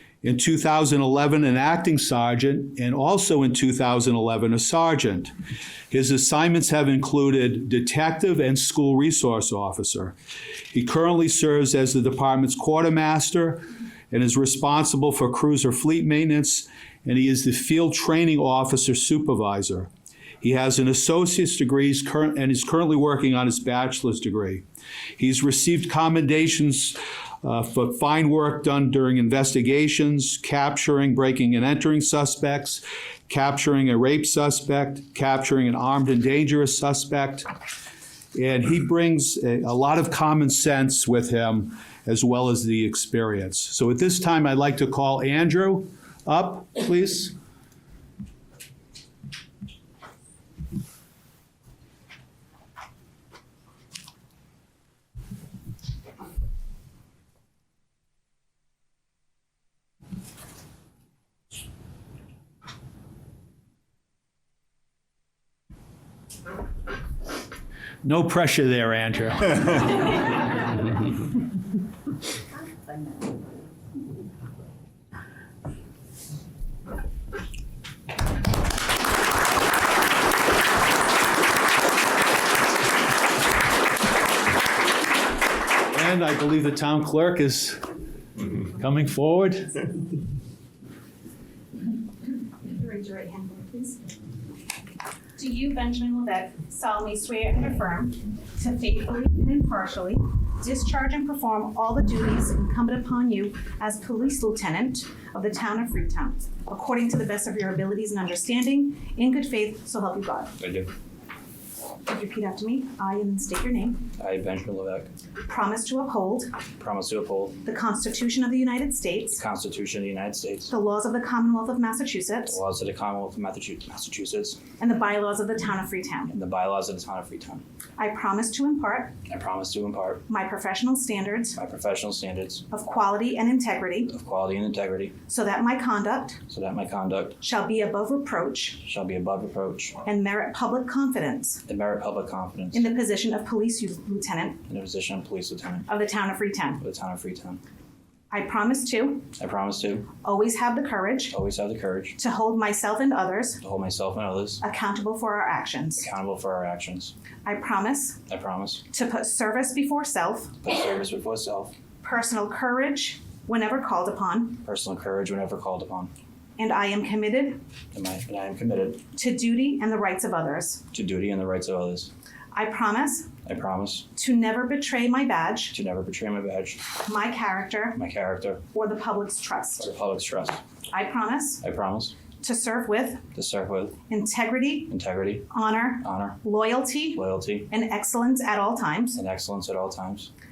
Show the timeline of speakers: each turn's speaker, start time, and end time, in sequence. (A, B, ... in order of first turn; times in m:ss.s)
0:00.2-0:05.3 A
0:05.9-0:10.1 A
0:10.7-0:19.9 A
0:20.4-0:24.6 A
0:25.2-0:37.5 A
0:38.3-0:47.3 A
1:08.0-1:10.0 A
1:25.9-1:27.8 A
1:28.8-1:29.8 A
1:32.6-1:34.0 B
1:35.4-1:50.6 B
1:50.6-1:50.9 C
1:52.0-1:54.1 B
1:54.2-1:55.1 C
1:55.4-1:56.5 B
1:56.8-1:57.6 C
1:57.6-1:59.4 B
1:59.3-2:00.7 C
2:00.7-2:02.6 B
2:02.4-2:04.6 C
2:04.8-2:06.3 B
2:06.3-2:07.6 C
2:08.0-2:09.2 B
2:09.3-2:10.2 C
2:10.3-2:11.6 B
2:11.5-2:12.6 C
2:12.7-2:14.1 B
2:14.1-2:15.2 C
2:15.3-2:16.4 B
2:16.5-2:17.4 C
2:17.4-2:18.8 B
2:18.8-2:20.0 C
2:20.0-2:21.6 B
2:21.7-2:22.9 C
2:22.7-2:24.6 B
2:24.7-2:25.9 C
2:25.9-2:26.8 B
2:26.8-2:27.6 C
2:28.3-2:29.3 B
2:29.4-2:30.1 C
2:30.2-2:31.4 B
2:31.3-2:32.2 C
2:32.2-2:33.6 B
2:33.6-2:34.6 C
2:34.6-2:36.1 B
2:36.0-2:37.1 C
2:37.4-2:38.2 B
2:38.3-2:38.8 C
2:38.9-2:40.6 B
2:40.6-2:41.7 C
2:42.0-2:44.6 B
2:44.6-2:46.1 C
2:46.6-2:47.6 B
2:47.9-2:49.0 C
2:49.1-2:50.8 B
2:50.9-2:52.1 C
2:52.5-2:53.3 B
2:53.4-2:54.1 C
2:54.1-2:55.8 B
2:55.7-2:56.9 C
2:57.0-2:58.0 B
2:58.0-2:58.6 C
2:58.7-2:59.9 B
2:59.8-3:00.6 C
3:00.9-3:01.6 B
3:01.6-3:02.2 C
3:02.4-3:03.2 B
3:03.3-3:04.0 C
3:04.1-3:04.9 B
3:04.9-3:05.5 C
3:05.5-3:09.2 B
3:06.0-3:06.4 C
3:07.1-3:07.7 C
3:09.1-3:10.3 C